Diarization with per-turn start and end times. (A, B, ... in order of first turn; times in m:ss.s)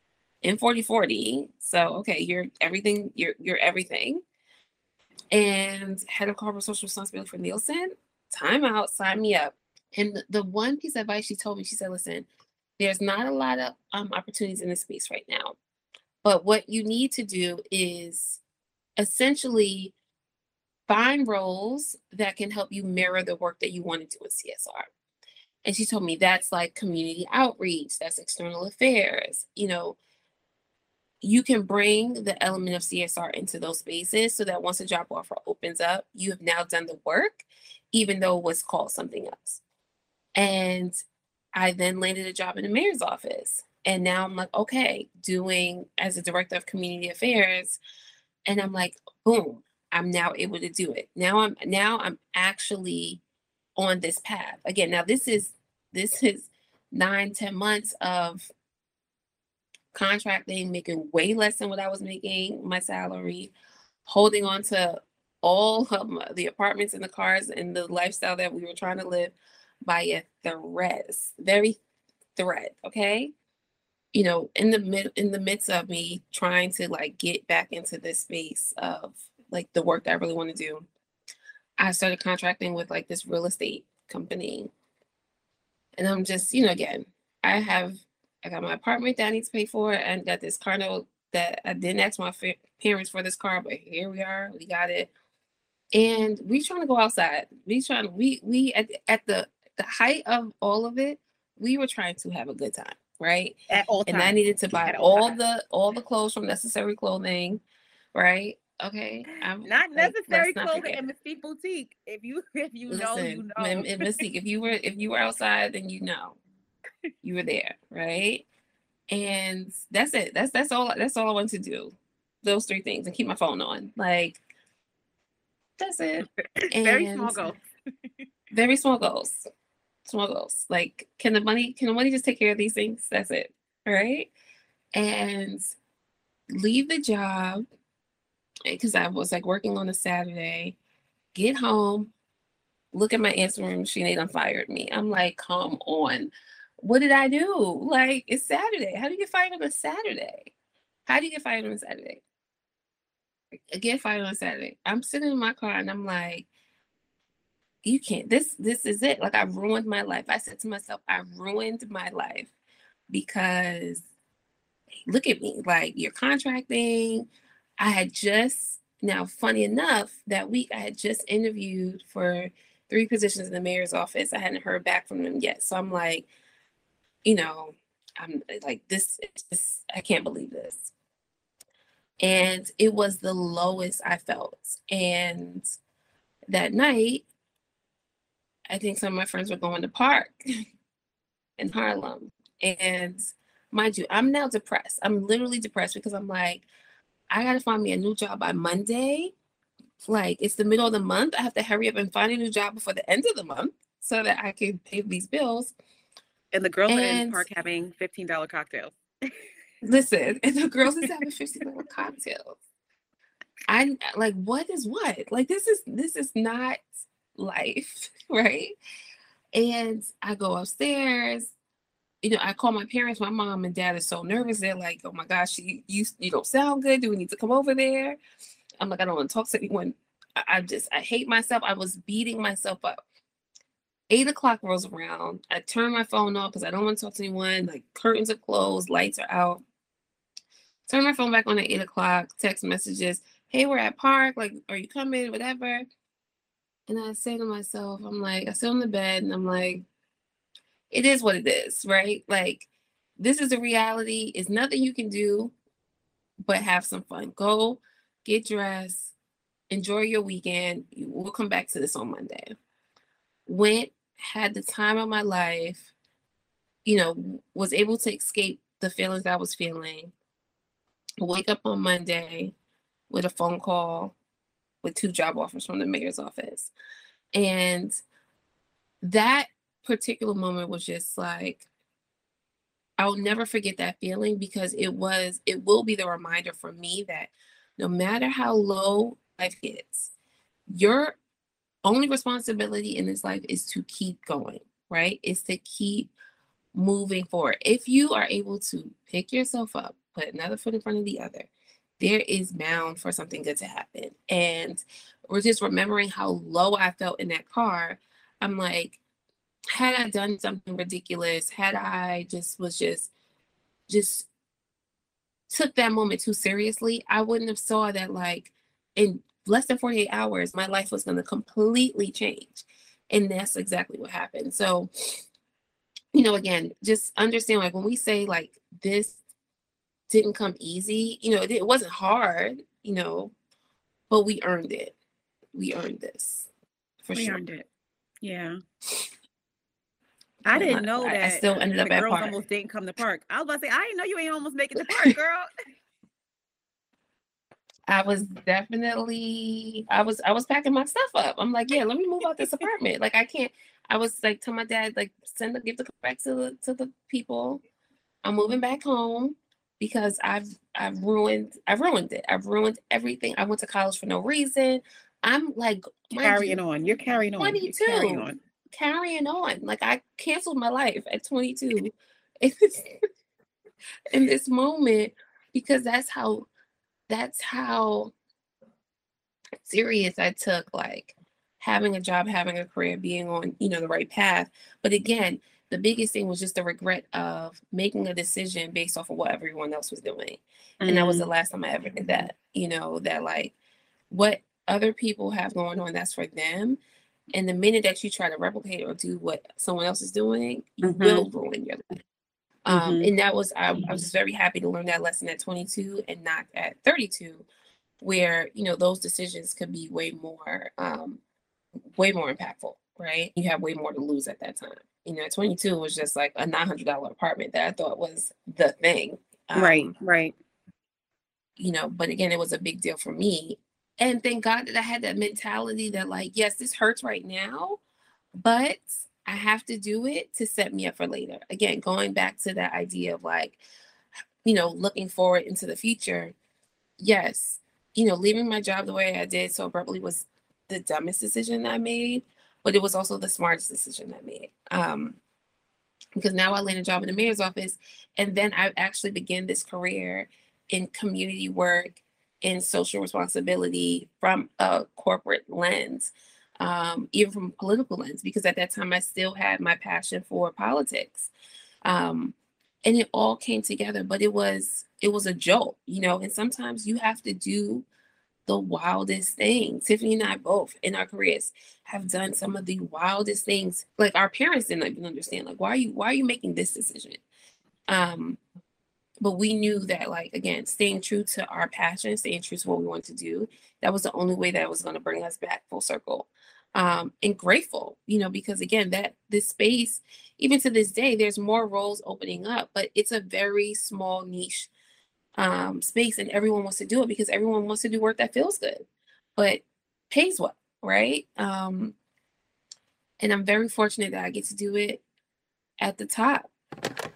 0:00.4-0:04.2 A
0:05.3-0:12.3 A
0:12.8-0:15.6 A
0:16.2-0:18.4 A
0:19.0-0:19.9 A
0:20.9-0:24.9 A
0:25.6-0:30.0 A
0:31.2-0:39.6 A
0:40.4-0:41.0 A
0:41.6-0:47.8 A
0:48.5-0:53.2 A
0:53.8-0:58.5 A
0:59.9-1:03.5 A
1:04.1-1:11.8 A
1:12.4-1:13.3 A
1:14.1-1:20.9 A
1:21.8-1:24.7 A
1:26.0-1:35.1 A
1:35.9-1:47.6 A
1:43.7-1:45.4 B
1:48.1-1:51.0 A
1:49.6-1:54.0 B
1:52.9-1:56.4 A
1:57.2-1:58.4 A
1:59.1-2:04.4 A
2:05.8-2:07.5 A
2:06.7-2:07.6 B
2:08.5-2:09.5 A
2:10.1-2:14.3 A
2:14.9-2:15.7 A
2:16.5-2:17.7 A
2:18.7-2:20.8 A
2:21.4-2:22.1 A
2:22.9-2:30.5 A
2:31.1-2:32.2 A
2:33.5-2:36.5 A
2:37.8-2:42.5 A
2:43.1-2:44.0 A
2:45.1-2:47.3 A
2:47.8-2:56.3 A
2:57.2-3:00.9 A
3:02.2-3:05.7 A
3:06.5-3:07.2 A
3:08.7-3:10.4 A
3:11.6-3:16.7 A
3:17.3-3:19.3 A
3:20.1-3:25.7 A
3:26.5-3:29.0 B
3:26.9-3:27.5 A
3:29.8-3:32.6 A
3:33.7-3:36.8 A
3:37.4-3:38.8 A
3:39.5-3:41.6 A
3:42.2-3:48.2 A
3:48.8-3:53.0 A
3:54.1-3:59.6 A
4:00.9-4:05.9 A
4:06.9-4:09.8 A
4:10.9-4:15.6 A
4:16.4-4:19.2 A
4:19.7-4:22.6 A
4:23.5-4:25.9 A
4:26.8-4:30.1 A
4:31.2-4:32.5 A
4:33.1-4:34.2 A
4:34.8-4:36.7 A
4:37.3-4:38.0 A
4:39.0-4:41.7 A
4:43.0-4:50.1 A
4:50.7-4:51.2 A
4:51.8-4:56.1 A
4:56.8-5:01.5 A
5:02.0-5:09.0 A
5:09.7-5:13.1 A
5:13.9-5:14.3 A
5:15.5-5:24.9 A
5:26.1-5:29.2 A
5:30.1-5:33.3 A
5:34.1-5:34.9 A
5:35.5-5:36.5 A
5:37.0-5:37.4 A
5:37.2-5:37.7 B
5:38.2-5:38.6 B
5:40.5-5:45.5 B
5:40.5-5:42.3 A
5:44.8-5:45.2 A
5:47.9-5:57.6 A
5:58.2-6:06.6 A
6:06.2-6:08.4 B
6:07.4-6:13.1 A
6:14.1-6:16.5 A
6:17.1-6:18.1 A
6:19.6-6:33.5 A
6:30.8-6:31.3 B
6:34.1-6:36.8 A
6:37.3-6:42.0 A
6:40.8-6:41.3 B
6:42.6-6:47.5 A
6:42.7-6:43.1 B
6:48.0-6:51.2 A
6:52.0-6:59.9 A
6:59.6-7:00.3 B
7:01.6-7:07.8 A
7:08.4-7:13.6 A
7:14.4-7:16.4 A
7:17.0-7:25.2 A
7:26.2-7:41.3 A
7:41.8-7:47.9 A
7:48.5-7:57.2 A
7:57.9-7:58.4 A
7:59.2-8:14.7 A
8:15.4-8:18.8 A
8:19.4-8:22.0 A
8:23.2-8:25.0 A
8:25.8-8:26.5 A